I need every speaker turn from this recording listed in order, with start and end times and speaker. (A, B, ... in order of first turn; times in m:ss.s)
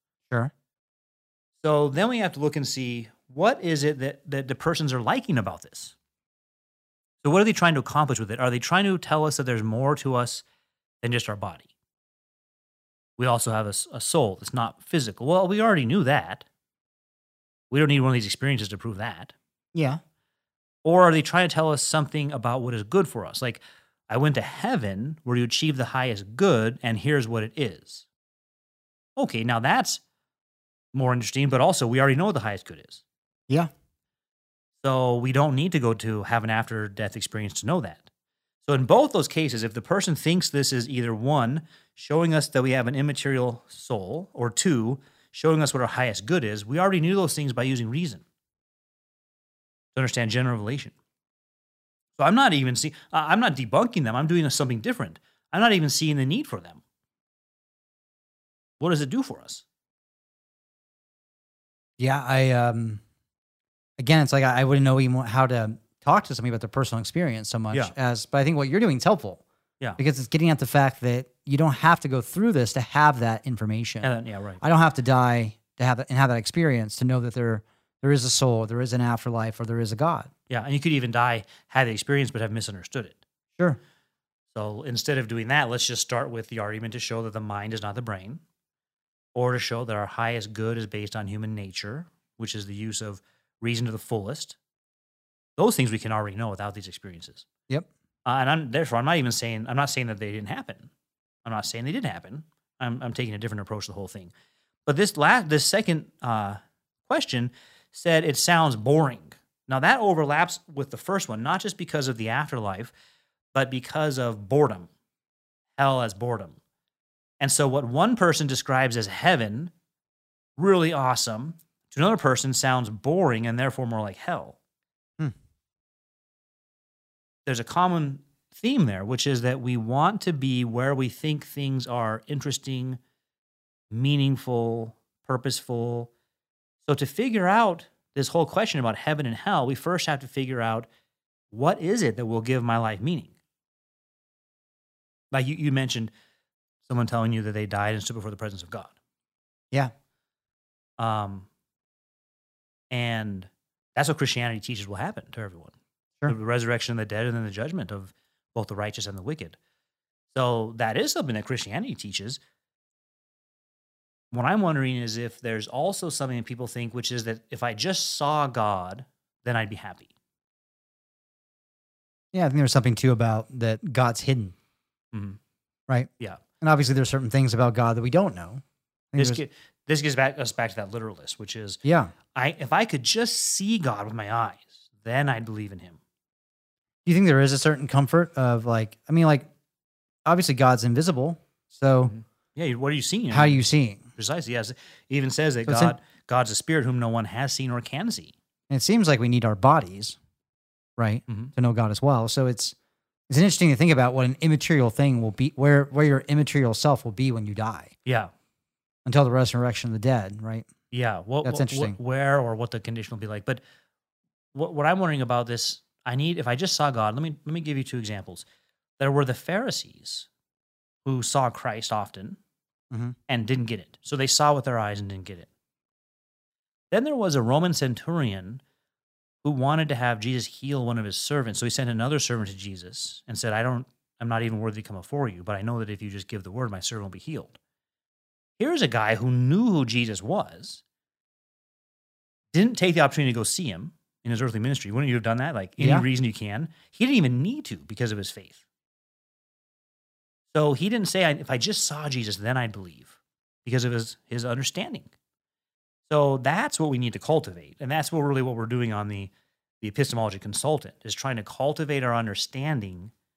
0:01.6-0:05.9 A
0:07.2-0:10.4 A
0:11.0-0:11.7 A
0:13.2-0:16.4 A
0:17.7-0:19.3 A
0:19.7-0:20.0 B
0:20.8-0:28.1 A
0:29.2-0:30.0 A
0:30.9-0:33.0 A
0:34.8-0:38.1 A
0:38.6-0:48.2 A
0:49.9-0:50.9 A
0:52.2-0:56.8 A
0:58.8-0:59.6 A
1:02.0-1:03.0 B
1:04.0-1:09.4 B
1:10.0-1:20.3 B
1:14.0-1:14.6 A
1:20.5-1:23.2 A
1:24.5-1:28.4 A
1:29.3-1:34.6 A
1:35.6-1:37.4 A
1:38.2-1:40.9 A
1:41.4-1:44.3 A
1:44.8-1:52.9 A
1:53.5-1:54.9 A
1:55.8-1:56.6 A
1:57.4-1:59.7 A
2:00.6-2:04.6 A
2:07.4-2:13.0 A
2:13.9-2:16.1 A
2:16.8-2:20.9 A
2:21.5-2:23.3 A
2:25.3-2:26.1 A
2:26.8-2:28.9 A
2:31.0-2:31.5 A
2:32.9-2:35.7 A
2:36.2-2:39.6 A
2:40.3-2:42.4 A
2:44.3-2:50.1 A
2:52.3-2:54.5 B
2:55.1-2:55.4 A
2:56.6-2:58.6 B
2:59.1-2:59.4 B
2:59.2-3:01.8 A
3:01.8-3:02.1 B
3:02.3-3:06.0 A
3:07.0-3:09.5 B
3:10.2-3:12.1 B
3:12.0-3:18.3 A
3:13.3-3:14.0 B
3:15.6-3:16.0 B
3:18.7-3:20.2 B
3:21.0-3:22.7 B
3:21.3-3:21.5 A
3:23.3-3:27.9 B
3:28.0-3:28.3 A
3:29.0-3:30.6 B
3:30.9-3:33.6 A
3:31.4-3:32.0 B
3:34.5-3:38.4 A
3:39.0-3:40.3 A
3:41.0-3:42.4 A
3:42.9-3:43.2 B
3:43.3-3:45.5 A
3:46.9-3:48.6 A
3:49.4-3:57.6 A
3:58.6-4:00.8 A
4:02.5-4:08.6 A
4:05.8-4:06.1 B
4:10.5-4:15.1 A
4:16.1-4:23.1 A